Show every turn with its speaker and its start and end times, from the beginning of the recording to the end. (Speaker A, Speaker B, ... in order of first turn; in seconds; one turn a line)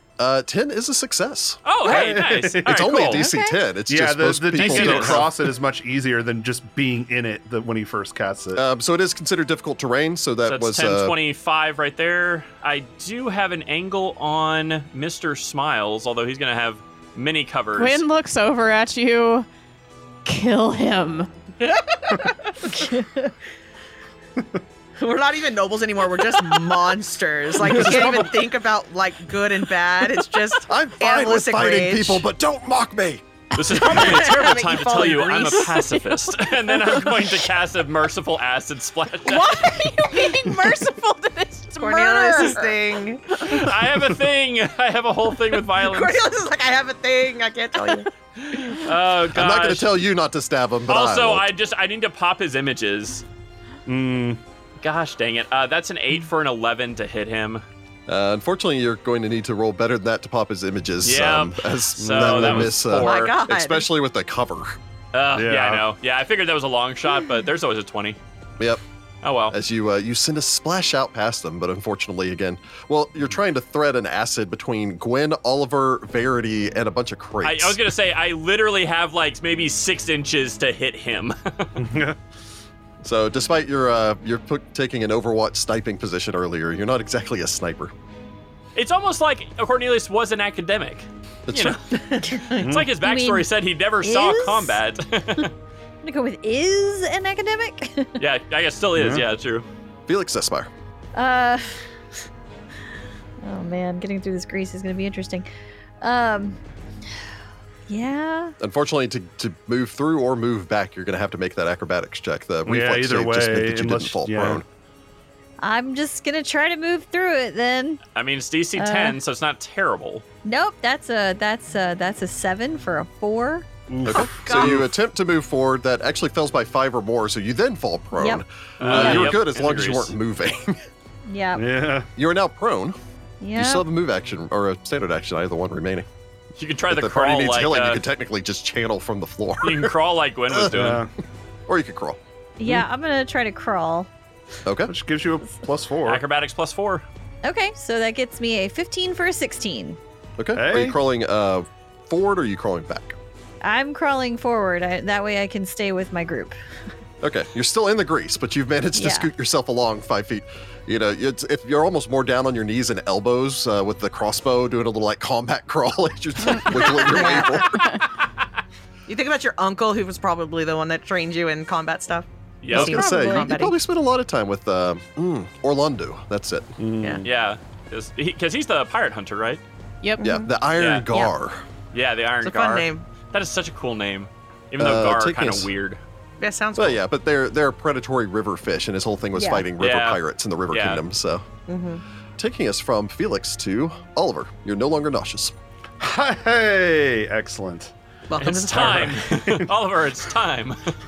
Speaker A: 0.2-1.6
Speaker B: 1.6-3.3
Speaker C: 1.8-2.8
Speaker A: 2.6-5.3
Speaker D: 3.1-3.6
Speaker C: 3.9-8.6
Speaker B: 4.5-5.3
Speaker A: 8.6-11.2
Speaker B: 10.5-18.0
Speaker E: 17.8-19.5
Speaker E: 20.2-21.3
Speaker F: 21.6-22.9
Speaker F: 25.0-32.2
Speaker C: 27.6-28.3
Speaker A: 30.6-33.2
Speaker B: 33.5-39.8
Speaker F: 33.6-36.1
Speaker E: 39.2-42.8
Speaker F: 41.8-43.6
Speaker B: 43.4-46.2
Speaker F: 45.8-48.1
Speaker B: 48.4-49.9
Speaker A: 49.3-51.5
Speaker B: 50.9-53.2
Speaker C: 53.9-54.4
Speaker B: 54.8-57.6
Speaker A: 58.1-64.8
Speaker B: 61.0-63.4
Speaker C: 62.0-62.8
Speaker F: 62.9-63.9
Speaker B: 65.1-68.2
Speaker C: 65.3-65.8
Speaker B: 69.2-69.6
Speaker A: 69.5-77.8
Speaker B: 77.4-81.8
Speaker C: 81.8-82.2
Speaker A: 83.0-87.9
Speaker B: 88.8-95.5
Speaker A: 91.5-91.8
Speaker F: 91.9-92.8
Speaker C: 92.6-92.9
Speaker D: 93.0-93.5
Speaker D: 94.0-94.8
Speaker D: 96.0-98.2
Speaker B: 98.2-99.7
Speaker C: 99.0-99.2
Speaker A: 100.1-100.7
Speaker D: 101.2-101.8
Speaker D: 103.4-105.5
Speaker D: 106.0-106.6
Speaker D: 107.9-108.6
Speaker A: 108.6-114.7
Speaker C: 112.7-114.6
Speaker D: 115.6-118.0
Speaker B: 118.2-120.2
Speaker D: 118.8-119.2
Speaker D: 120.4-123.7
Speaker C: 123.9-124.9
Speaker A: 124.0-130.8
Speaker F: 124.5-124.8
Speaker B: 128.8-130.2
Speaker C: 128.8-129.3
Speaker D: 129.0-129.2
Speaker D: 131.3-131.6
Speaker C: 131.6-132.1
Speaker A: 132.2-133.0
Speaker D: 133.4-133.9
Speaker A: 133.6-136.1
Speaker B: 136.6-138.0
Speaker A: 136.9-139.9
Speaker B: 139.6-141.1
Speaker A: 140.5-141.0
Speaker C: 140.7-141.1
Speaker A: 141.7-142.2
Speaker D: 142.6-144.1
Speaker A: 144.7-144.9
Speaker C: 144.9-146.2
Speaker B: 146.1-147.1
Speaker D: 147.4-150.0
Speaker A: 150.4-153.2
Speaker C: 150.6-151.0
Speaker D: 153.6-156.6
Speaker A: 157.2-167.9
Speaker D: 158.9-159.3
Speaker F: 166.8-167.5
Speaker D: 167.2-167.4
Speaker B: 167.8-168.3
Speaker F: 169.1-173.8
Speaker B: 172.6-173.0
Speaker A: 172.7-176.8
Speaker D: 172.8-173.5
Speaker C: 176.8-177.3
Speaker B: 177.2-179.6
Speaker F: 180.2-180.5
Speaker A: 180.2-181.6
Speaker B: 180.8-181.1
Speaker B: 181.9-186.0
Speaker F: 182.4-183.1
Speaker A: 184.8-185.7
Speaker F: 186.4-187.0
Speaker A: 186.8-191.5
Speaker D: 189.4-189.7
Speaker B: 189.8-191.0
Speaker F: 191.7-192.0
Speaker A: 192.4-195.5
Speaker C: 196.0-197.9
Speaker F: 198.3-199.2
Speaker B: 198.4-200.9
Speaker C: 199.0-199.7